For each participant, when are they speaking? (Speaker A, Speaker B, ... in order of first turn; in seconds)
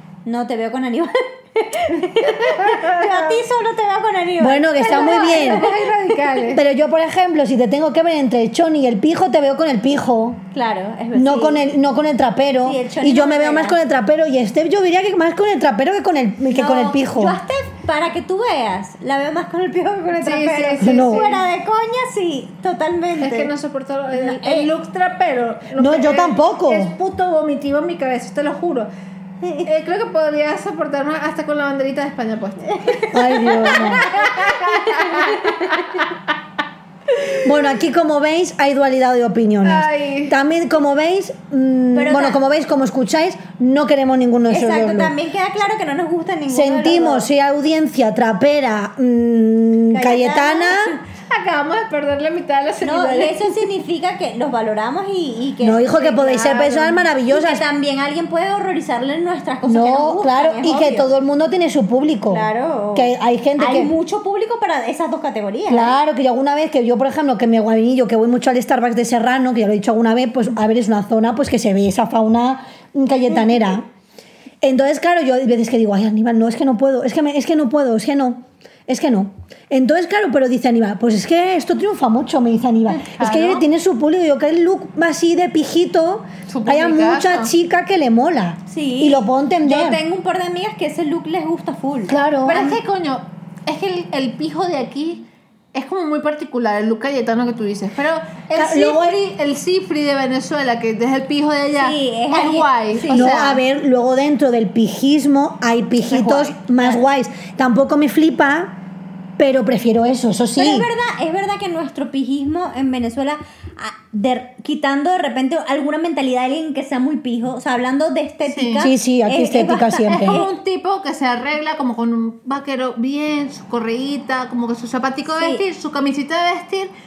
Speaker A: 0.2-5.9, 10.5-11.7, 12.6-13.8, 16.5-23.5, 24.1-24.7, 29.4-29.7, 32.7-36.0, 41.9-42.4, 44.5-47.3, 49.9-51.0, 52.8-56.0, 57.3-61.1, 62.3-66.0, 88.7-92.8, 101.7-103.3, 106.1-107.0, 110.5-120.5, 125.3-125.6
Speaker B: 2.5-3.3, 4.8-6.6, 20.1-21.4, 23.2-28.9, 29.6-36.2, 37.1-37.6, 39.6-40.3, 51.3-53.5, 55.9-57.0, 82.9-83.6, 86.5-87.5, 92.5-103.6, 118.5-118.9, 120.1-126.9
Speaker C: 4.4-5.7, 6.5-10.4, 11.1-17.4, 20.8-21.3, 25.8-26.9, 33.1-34.1, 37.4-45.1, 46.5-51.0, 55.6-57.6, 59.6-63.9, 65.7-73.9, 74.6-90.0, 92.1-92.7, 98.5-99.2, 103.1-108.7, 109.4-110.9, 118.8-120.4